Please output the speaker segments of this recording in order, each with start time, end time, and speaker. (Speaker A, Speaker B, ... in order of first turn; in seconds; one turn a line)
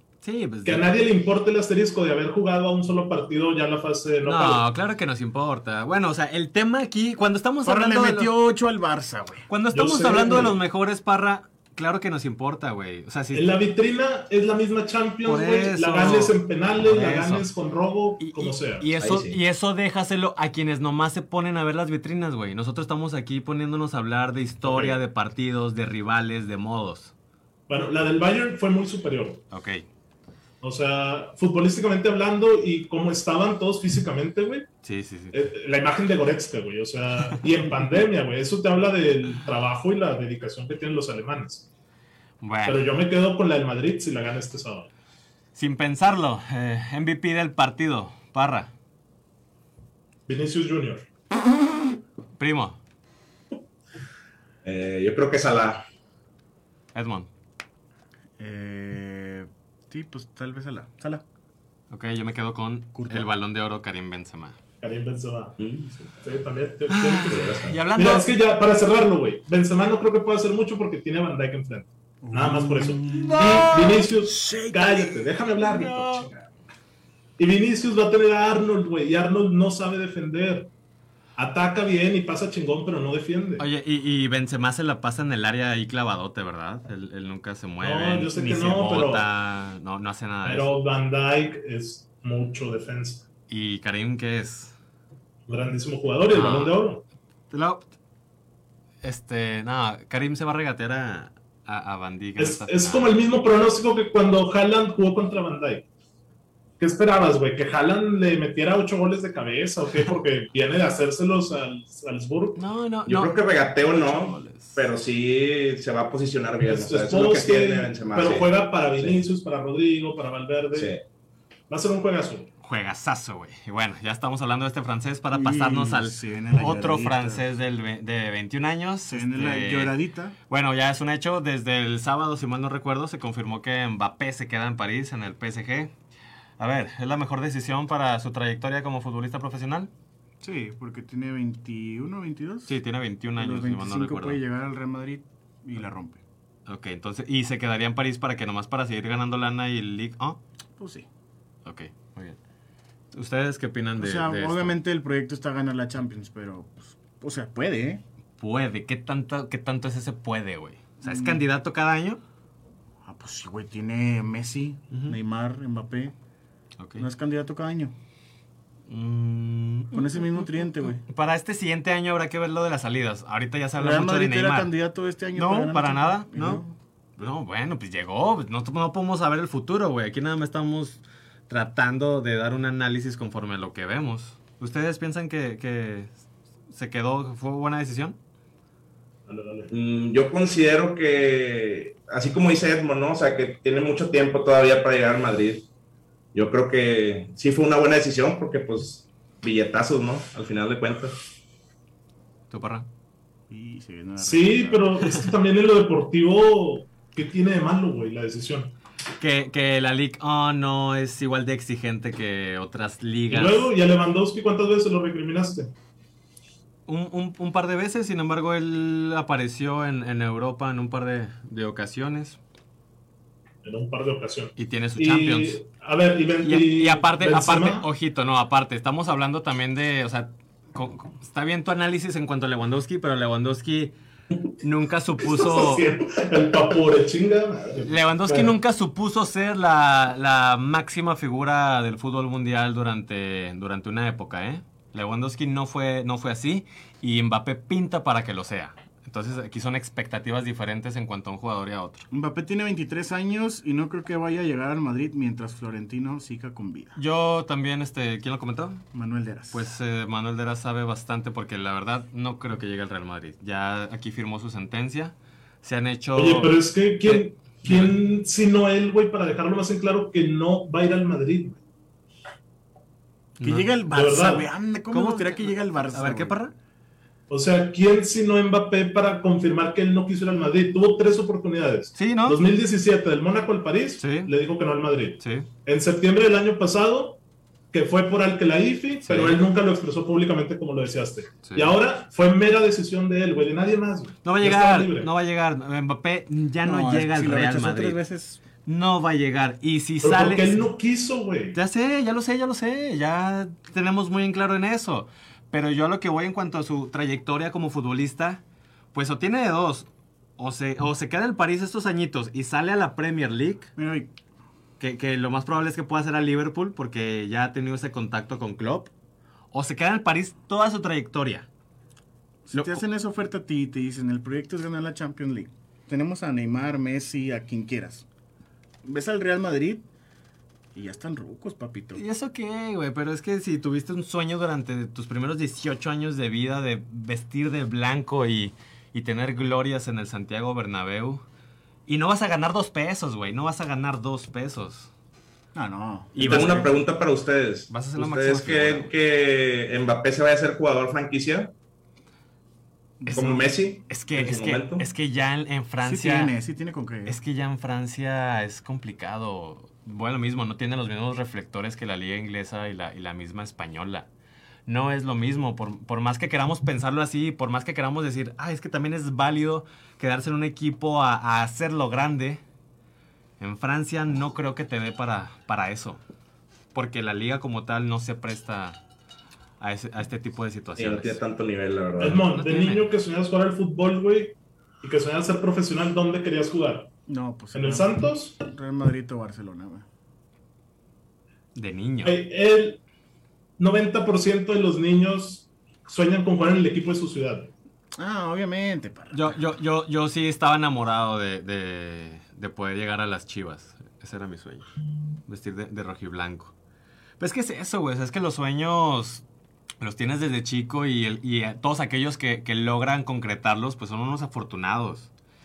Speaker A: 0.2-0.9
Speaker B: 0.6-4.6
Speaker A: 4.2-8.3
Speaker C: 7.6-9.5
Speaker A: 9.5-13.5
Speaker B: 9.7-10.6
Speaker B: 13.3-18.9
Speaker A: 15.2-17.5
Speaker A: 18.2-27.1
Speaker D: 19.0-19.4
Speaker B: 24.6-24.9
Speaker B: 27.7-29.4
Speaker A: 29.5-29.9
Speaker B: 30.6-34.7
Speaker A: 34.8-35.4
Speaker B: 35.3-41.7
Speaker A: 42.4-42.9
Speaker B: 42.6-44.9
Speaker A: 45.5-48.7
Speaker B: 50.3-51.0
Speaker A: 52.4-52.8
Speaker D: 54.6-55.8
Speaker A: 56.9-57.3
Speaker C: 58.4-61.2
Speaker A: 61.9-64.6
Speaker C: 62.9-63.3
Speaker B: 64.8-65.5
Speaker D: 65.6-66.1
Speaker B: 66.2-76.3
Speaker A: 66.9-68.3
Speaker D: 67.3-67.7
Speaker C: 72.2-75.3
Speaker A: 73.0-74.1
Speaker A: 75.7-76.3
Speaker B: 77.4-80.7
Speaker B: 81.4-83.6
Speaker A: 83.6-90.7
Speaker B: 87.8-89.2
Speaker B: 90.4-93.2
Speaker A: 93.5-94.8
Speaker B: 95.5-97.0
Speaker A: 96.3-96.8
Speaker A: 97.5-97.8
Speaker A: 99.0-103.1
Speaker B: 102.4-105.8
Speaker B: 106.8-112.6
Speaker A: 112.5-114.8
Speaker D: 113.0-119.2
Speaker B: 116.6-121.0
Speaker D: 120.7-121.0
Speaker B: 121.7-122.5
Speaker A: 122.6-130.0
Speaker C: 125.3-127.5
Speaker C: 129.1-130.3
Speaker A: 130.5-135.9
Speaker A: 136.6-139.9
Speaker C: 140.4-142.8
Speaker A: 142.7-144.4
Speaker C: 143.4-146.2
Speaker A: 146.7-150.4
Speaker C: 150.8-151.1
Speaker A: 151.6-152.4
Speaker A: 153.1-154.7
Speaker C: 154.0-158.0
Speaker A: 158.4-162.2
Speaker C: 161.0-161.4
Speaker C: 163.0-166.1
Speaker A: 164.9-165.2
Speaker A: 166.8-167.1
Speaker C: 167.0-167.9
Speaker A: 168.9-170.5
Speaker C: 169.9-171.0
Speaker A: 171.0-174.7
Speaker C: 173.8-176.8
Speaker A: 175.3-176.6
Speaker A: 177.2-186.1
Speaker A: 186.7-188.2
Speaker B: 189.3-189.7
Speaker D: 189.7-195.7
Speaker D: 196.3-201.1
Speaker A: 202.5-202.9
Speaker C: 203.5-205.0
Speaker B: 204.2-208.7
Speaker A: 209.2-213.7
Speaker B: 213.3-215.7
Speaker A: 216.9-222.4
Speaker B: 223.6-227.8
Speaker A: 224.6-225.6
Speaker A: 226.4-233.9
Speaker A: 234.6-235.9
Speaker B: 235.2-238.5
Speaker A: 237.8-252.1
Speaker C: 252.1-257.0
Speaker A: 256.9-258.8
Speaker C: 258.9-259.6
Speaker A: 259.5-268.0
Speaker B: 266.1-271.6
Speaker C: 273.4-276.4
Speaker A: 273.4-273.7
Speaker B: 273.9-274.5
Speaker A: 274.9-276.5
Speaker B: 277.3-287.2
Speaker A: 281.9-282.4
Speaker A: 284.0-284.3
Speaker A: 285.2-285.5
Speaker B: 287.7-295.1
Speaker A: 289.0-289.4
Speaker A: 291.4-291.7
Speaker A: 294.2-298.0
Speaker C: 296.6-298.4
Speaker A: 298.6-300.6
Speaker B: 300.0-301.6
Speaker A: 301.5-308.4
Speaker A: 308.9-313.7
Speaker C: 313.8-314.1
Speaker A: 314.8-318.9
Speaker A: 319.5-321.5
Speaker C: 322.4-328.0
Speaker A: 322.5-322.8
Speaker C: 328.8-329.9
Speaker C: 330.7-332.0
Speaker A: 331.9-341.2
Speaker A: 341.9-344.9
Speaker C: 345.5-346.7
Speaker A: 346.1-346.6
Speaker D: 346.2-351.5
Speaker A: 347.7-348.9
Speaker C: 353.0-353.5
Speaker D: 353.1-354.8
Speaker A: 353.9-356.3
Speaker C: 355.8-357.2
Speaker A: 357.1-364.1
Speaker A: 364.7-372.4
Speaker A: 373.4-376.0
Speaker A: 376.7-378.8
Speaker A: 379.6-381.2
Speaker D: 380.8-382.2
Speaker B: 382.0-386.9
Speaker A: 382.2-382.9
Speaker C: 387.1-389.9
Speaker B: 387.5-388.4
Speaker A: 391.5-392.2
Speaker B: 392.0-392.8
Speaker B: 393.6-397.5
Speaker C: 397.9-399.4
Speaker A: 399.1-404.6
Speaker A: 405.2-406.5
Speaker A: 407.2-409.2
Speaker A: 409.8-415.1